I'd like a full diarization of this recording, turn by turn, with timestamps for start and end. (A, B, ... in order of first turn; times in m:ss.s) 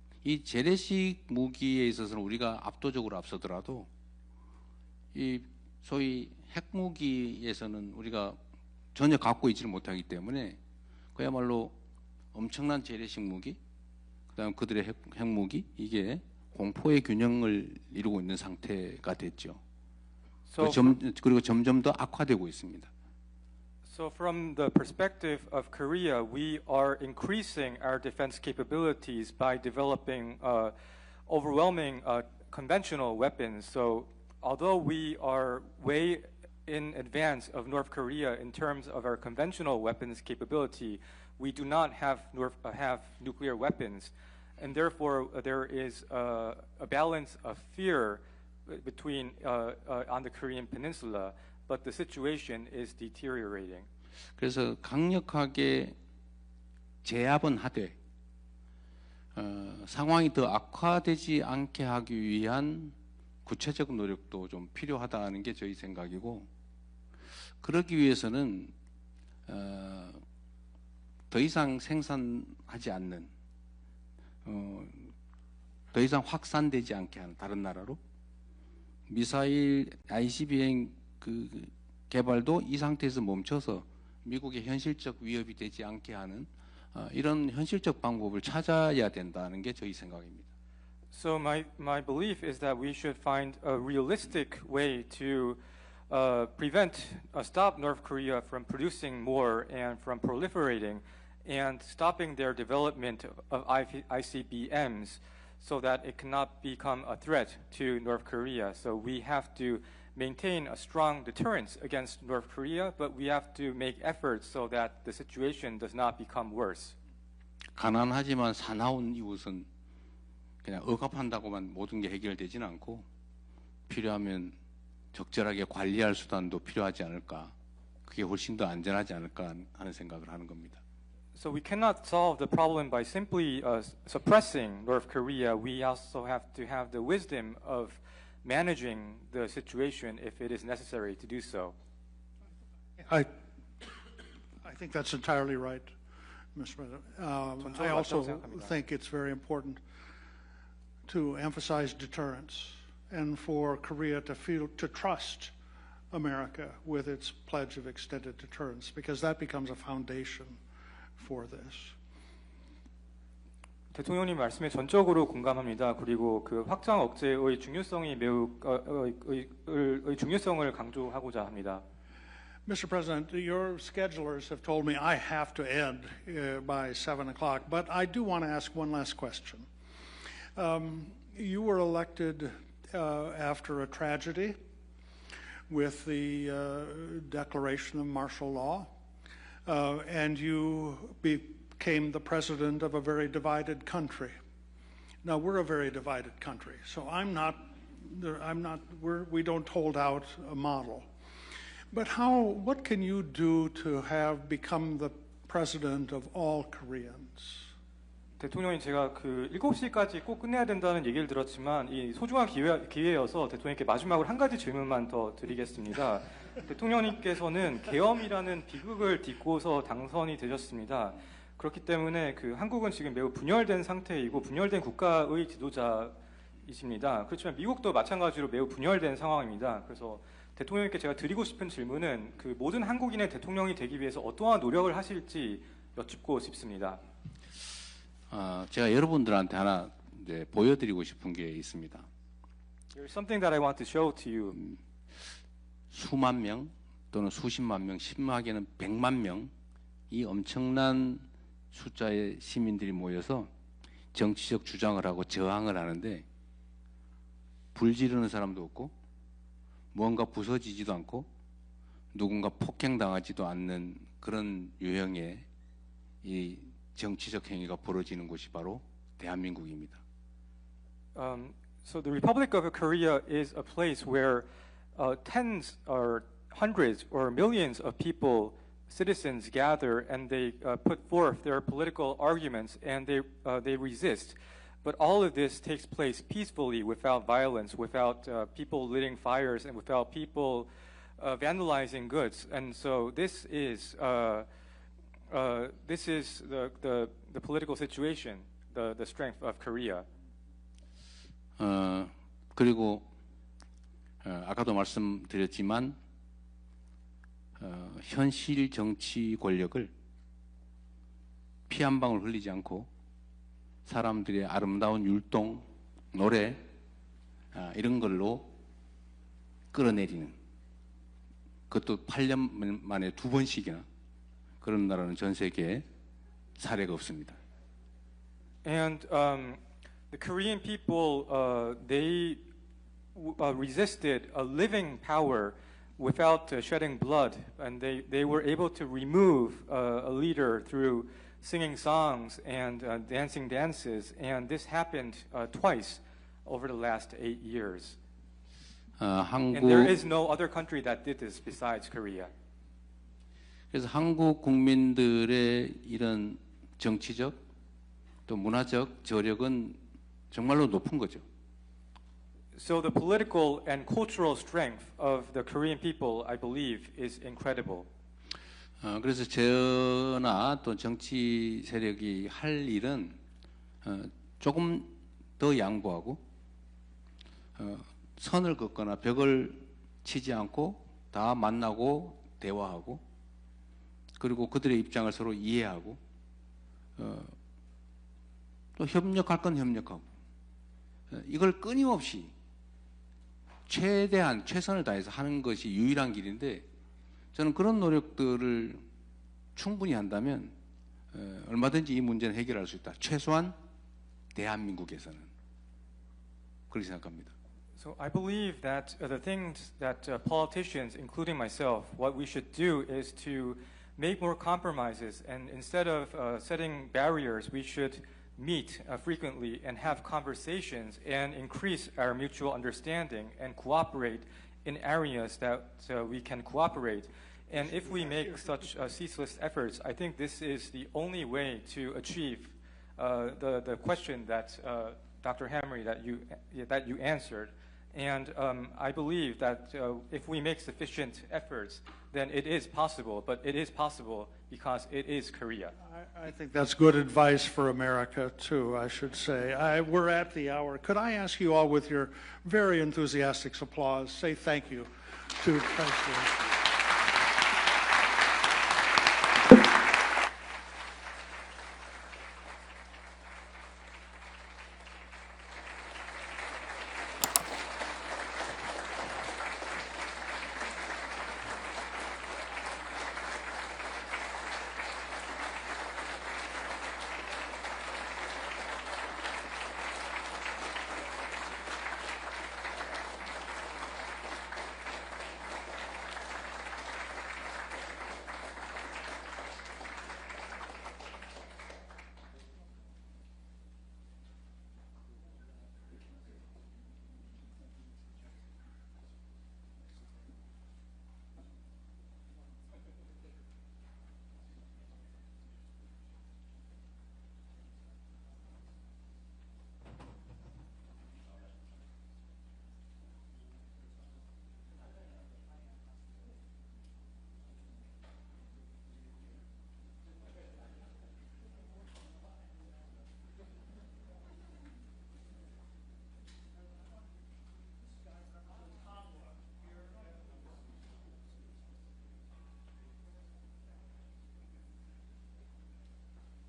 0:00.2-0:03.9 A
0:05.1-0:08.4 A
0:08.9-0:10.6 A
0:11.2-0:11.8 A
0:12.3-0:13.6 A
0:14.3-0:19.6 A
0:20.5-0:20.9 B
0:20.6-0:22.9 A
0:23.8-0:30.7 B
0:31.3-0:53.9 B
0:54.4-0:56.0 A
0:57.0-0:58.0 A
0:59.4-1:06.5 A
1:07.6-1:08.7 A
1:09.5-1:10.2 A
1:11.3-1:13.3 A
1:14.4-1:15.1 A
1:15.9-1:18.0 A
1:19.1-1:30.5 A
1:31.1-1:56.9 B
1:57.8-1:59.7 A
2:00.6-2:03.0 A
2:03.9-2:04.5 A
2:05.1-2:07.5 A
2:08.1-2:10.8 A
2:11.4-2:21.7 B
2:23.0-2:23.3 C
2:24.6-2:25.9 C
2:26.5-2:29.8 C
2:27.6-2:28.8 B
2:31.1-2:35.5 C
2:36.1-2:40.6 C
2:41.2-2:42.0 C
2:43.9-2:51.8 B
2:52.6-2:59.7 C
3:00.5-3:04.6 C
3:05.7-3:08.9 C
3:09.6-3:14.4 C
3:15.2-3:21.1 C
3:21.9-3:27.7 C
3:28.4-3:57.0 B
3:58.3-4:02.1 A
4:02.9-4:04.6 B
4:05.9-4:09.5 A
4:10.1-4:13.5 A
4:14.1-4:16.2 A
4:17.7-4:18.9 A
4:19.9-4:21.3 A
4:22.1-4:25.4 A
4:26.2-4:30.0 A
4:31.2-4:54.5 B
4:55.3-5:00.0 B
5:01.6-5:03.0 A
5:04.2-5:06.0 A
5:07.6-5:09.9 A
5:11.7-5:12.9 A
5:13.8-5:16.6 A
5:17.5-5:18.5 A
5:19.7-5:20.4 A
5:21.7-5:23.8 A
5:24.6-5:25.8 A
5:26.6-5:27.4 A
5:28.6-5:29.6 B
5:30.1-5:32.4 B
5:33.2-5:48.0 B
5:49.0-5:50.0 A
5:49.5-5:52.3 B
5:53.7-5:57.4 A
5:58.3-5:59.8 A
6:00.3-6:01.2 A
6:02.5-6:07.9 B
6:08.8-6:13.2 A
6:13.8-6:16.2 A
6:17.6-6:23.0 A
6:24.2-6:26.0 A
6:27.0-6:27.3 A
6:28.8-6:30.0 A
6:31.1-6:32.3 A
6:33.7-6:36.6 A
6:37.3-6:38.8 A
6:39.6-6:40.5 A
6:41.1-6:43.6 A
6:44.3-6:45.3 A
6:46.7-6:47.3 A
6:47.8-7:25.8 B
7:07.6-7:08.6 C
7:25.8-7:36.7 C
8:48.7-8:50.2 C